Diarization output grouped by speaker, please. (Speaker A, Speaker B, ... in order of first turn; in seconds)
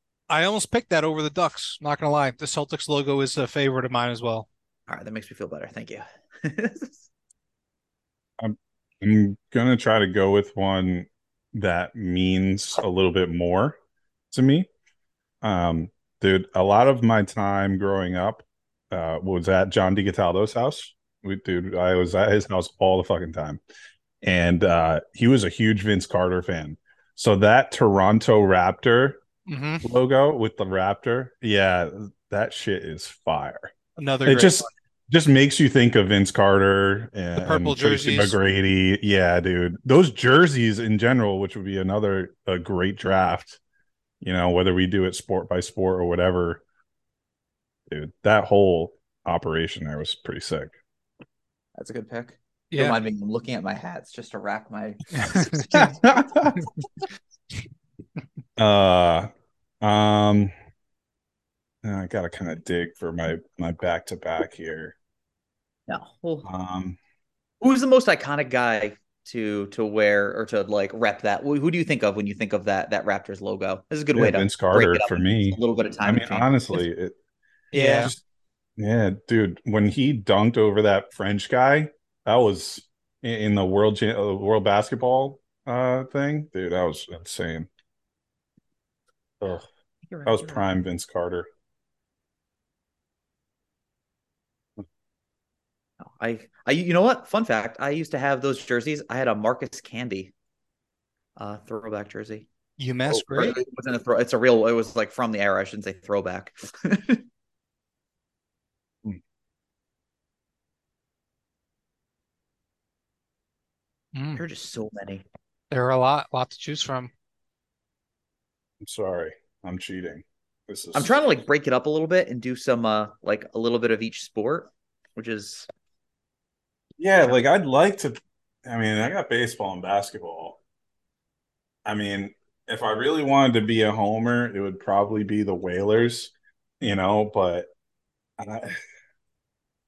Speaker A: 0.3-4.5, 29.5-29.9, 34.0-34.7, 37.4-38.4, 52.7-53.0, 55.1-55.9, 77.7-78.1, 102.8-103.6, 114.2-114.4, 115.7-117.1
Speaker B: 4.9-7.0, 51.8-56.0, 65.9-66.5, 67.6-76.8, 77.7-78.2, 90.1-90.7, 96.0-100.3, 101.4-102.5, 103.1-107.2, 114.4-115.2, 121.0-125.7
Speaker C: 8.4-13.8, 14.3-14.7, 15.4-23.6, 24.2-29.2, 29.8-33.7, 34.3-43.6, 44.2-46.6, 47.9-50.7, 55.7-56.6, 58.6-59.3, 59.8-60.5, 61.8-65.0, 66.4-67.0, 74.2-77.2, 78.8-87.7, 90.2-91.5, 118.8-121.2, 127.0-130.6, 131.9-137.7, 138.4-138.8